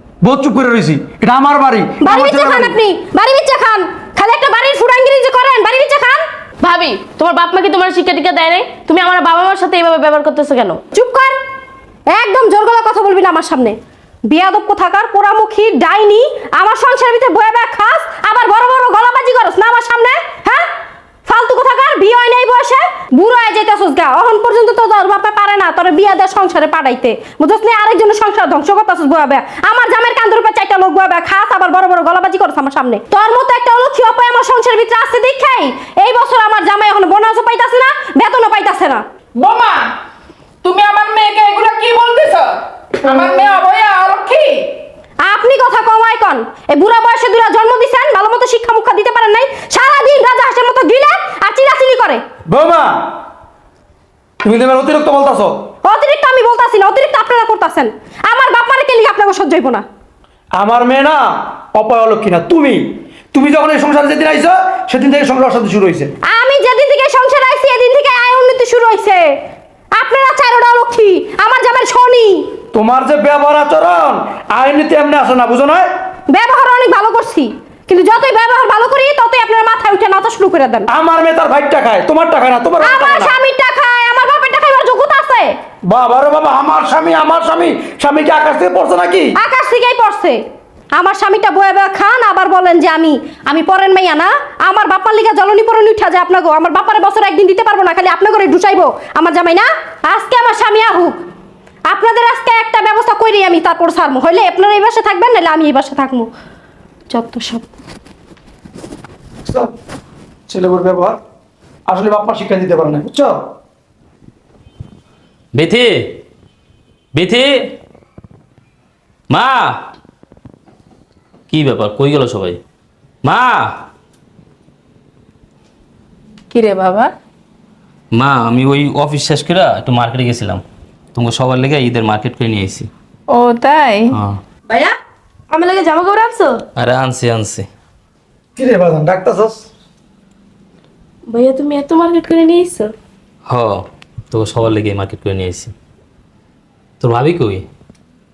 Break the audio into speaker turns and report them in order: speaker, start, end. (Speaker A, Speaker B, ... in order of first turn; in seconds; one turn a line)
Speaker A: 0.2-2.8
Speaker B: 2.0-6.2
Speaker C: 6.6-10.8
Speaker B: 10.9-11.3
Speaker B: 12.1-13.8
Speaker B: 14.3-20.7
Speaker B: 21.2-39.0
Speaker D: 39.4-39.9
Speaker D: 40.6-44.6
Speaker B: 45.2-52.2
Speaker A: 52.5-52.9
Speaker A: 54.4-55.5
Speaker B: 55.8-59.8
Speaker A: 60.6-66.1
Speaker B: 66.3-69.3
Speaker B: 69.9-72.4
Speaker A: 72.7-75.9
Speaker B: 76.3-80.9
Speaker A: 80.9-83.3
Speaker B: 82.8-85.5
Speaker A: 85.9-89.3
Speaker B: 89.4-90.4
Speaker B: 90.9-101.2
Speaker B: 101.9-106.3
Speaker B: 107.1-107.7
Speaker A: 109.5-109.7
Speaker A: 110.5-111.2
Speaker A: 111.9-113.4
Speaker E: 115.5-116.2
Speaker E: 117.1-117.7
Speaker E: 119.3-119.7
Speaker E: 121.5-122.6
Speaker E: 123.2-123.8
Speaker D: 126.5-127.1
Speaker E: 128.1-130.6
Speaker E: 131.1-132.9
Speaker D: 133.3-134.2
Speaker E: 134.1-134.4
Speaker C: 135.5-136.6
Speaker E: 136.8-137.7
Speaker A: 138.6-139.6
Speaker C: 141.3-142.9
Speaker E: 143.5-145.7
Speaker E: 147.0-147.7